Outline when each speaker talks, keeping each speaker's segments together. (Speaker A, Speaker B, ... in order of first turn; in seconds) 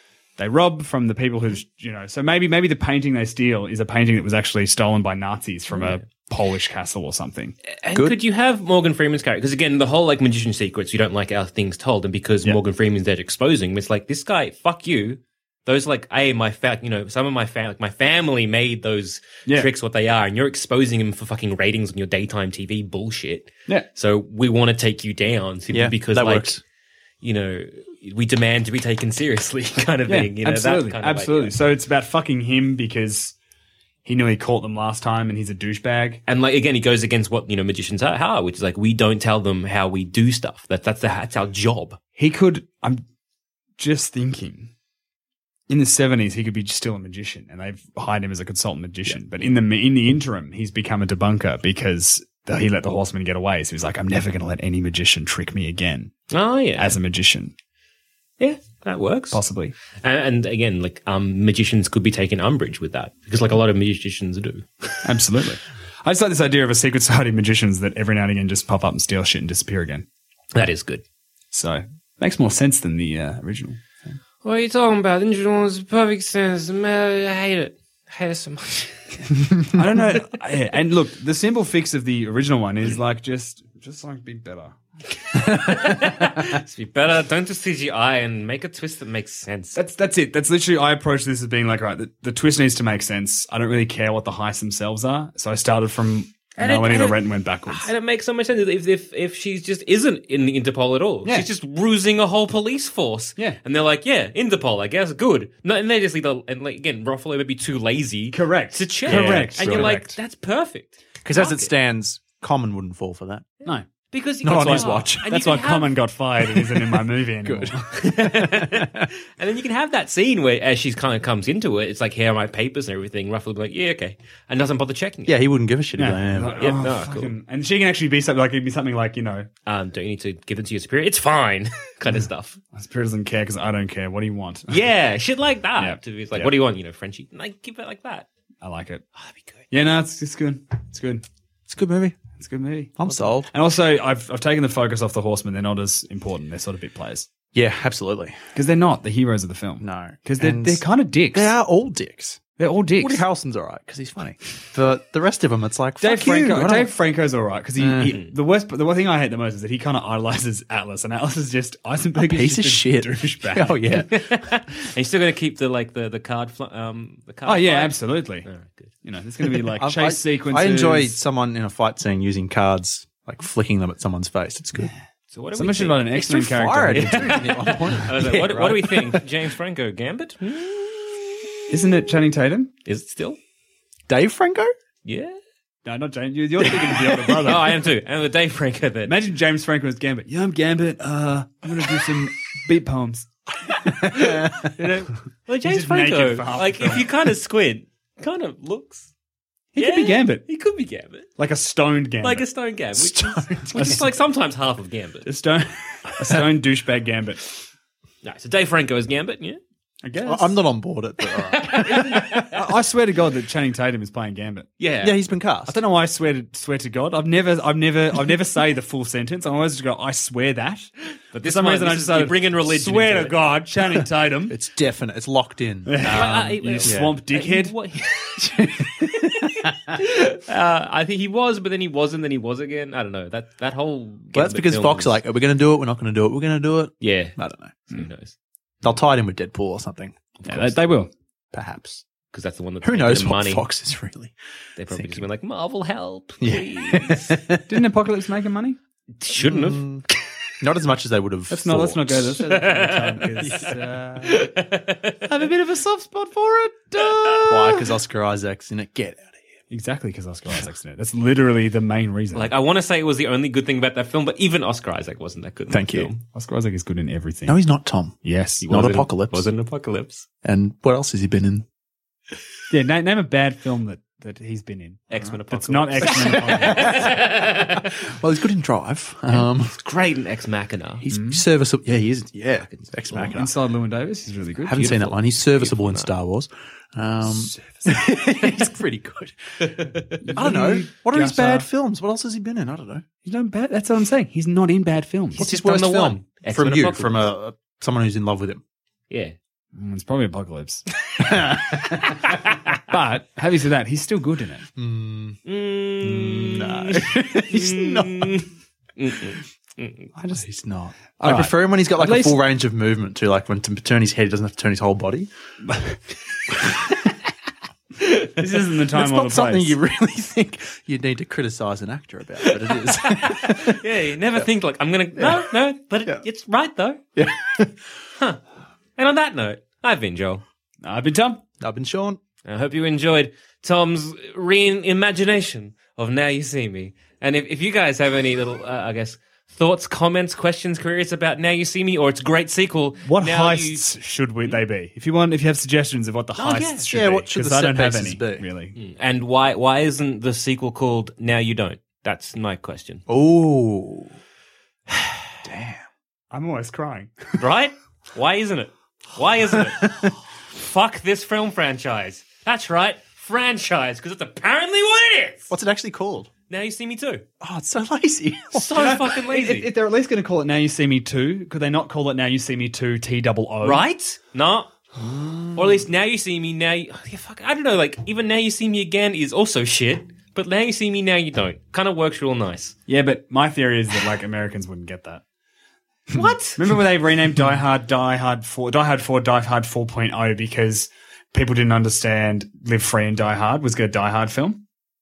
Speaker A: 0.4-7.5, 30.1-33.4, 34.0-36.2, 42.2-43.0, 43.8-44.7, 45.7-56.1, 56.8-57.5, 59.3-59.8, 65.0-70.0, 71.5-74.1, 79.7-84.8, 89.7-97.9, 108.3-110.2, 114.5-117.8, 126.0-129.5, 132.7-134.8, 135.8-136.5, 138.6-139.0, 139.7-141.2, 142.2-147.3, 148.5-151.5, 152.6-153.2, 156.0-163.8, 167.4-168.5, 169.0-171.2, 175.5-177.5, 181.7-182.7, 185.8-187.8, 189.0-193.3, 193.8-194.3, 195.7-197.1, 199.7-200.4, 201.4-202.4, 203.7-204.1, 205.2-207.6, 210.0-210.5, 212.1-214.7, 215.7-220.9, 221.4-224.6, 225.9-227.8, 240.4-242.0, 247.7-248.8, 251.5-254.5, 255.3-257.9, 259.7-262.5, 266.3-267.6, 268.2-268.6, 272.7-277.1, 281.1-281.4, 283.3-284.9, 287.3-288.0, 290.2-291.7, 293.2-295.4, 299.7-302.2, 302.9-304.6, 307.4-308.3, 311.2-312.4, 315.7-315.9, 318.4-319.7, 330.8-331.4, 343.0-348.8, 356.3-357.1, 368.7-373.8, 382.9-385.2, 386.6-394.6
Speaker B: 7.8-26.6, 27.2-31.5, 36.3-42.0, 56.3-57.0, 58.4-59.4, 60.0-65.0, 70.5-71.0, 74.4-79.2, 85.3-89.8, 96.6-111.7, 113.6-116.0, 117.9-125.3, 126.5-127.3, 129.7-132.6, 134.7-138.3, 139.2-139.6, 164.1-168.9, 175.3-176.3, 176.9-181.3, 182.8-183.4, 185.0-185.4, 187.4-189.1, 194.0-199.1, 199.8-201.3, 202.2-205.3, 208.2-209.6, 211.4-212.6, 214.8-215.2, 221.3-223.4, 226.1-229.0, 229.9-235.2, 237.0-237.3, 237.9-238.3, 242.3-243.7, 244.8-247.4, 249.2-249.8, 252.4-253.7, 254.2-255.3, 262.3-266.2, 268.6-270.3, 275.1-277.9, 279.4-281.0, 282.7-283.3, 284.7-286.1, 289.6-290.2, 295.4-297.3, 305.4-310.1, 322.4-327.0, 328.1-328.4, 329.0-330.4, 332.4-343.8, 346.4-346.9, 348.8-353.0, 354.9-355.2, 357.4-365.5, 366.5-367.2, 368.5-369.7, 373.6-374.7, 375.6-382.8, 386.1-386.6
Speaker C: 25.7-26.6, 109.0-110.0, 111.2-113.5, 114.4-115.2, 117.4-119.1, 125.2-126.7, 141.7-142.2, 143.0-143.5, 147.5-148.4, 149.8-152.5, 153.0-156.9, 157.8-158.2, 162.2-164.2, 169.8-174.9, 176.1-179.2, 184.1-184.7, 186.7-187.1, 203.0-203.8, 210.1-212.2, 215.0-215.8, 224.5-227.2, 228.5-229.4, 234.3-237.7, 238.8-240.7, 242.8-244.3, 244.9-245.2, 246.4-247.8, 249.4-250.1, 250.6-252.6, 253.4-253.7, 257.4-259.4, 265.7-266.1, 267.5-269.5, 270.4-271.6, 276.0-279.8, 281.0-283.5, 284.6-289.7, 290.3-293.0, 295.4-298.6, 304.8-305.4, 306.0-307.9, 310.3-315.3, 318.6-323.8, 325.1-325.5, 327.1-327.8, 331.6-332.2, 346.9-348.4, 353.1-354.1, 355.4-355.9, 359.8-360.1, 365.5-366.3, 367.4-368.9, 375.0-375.7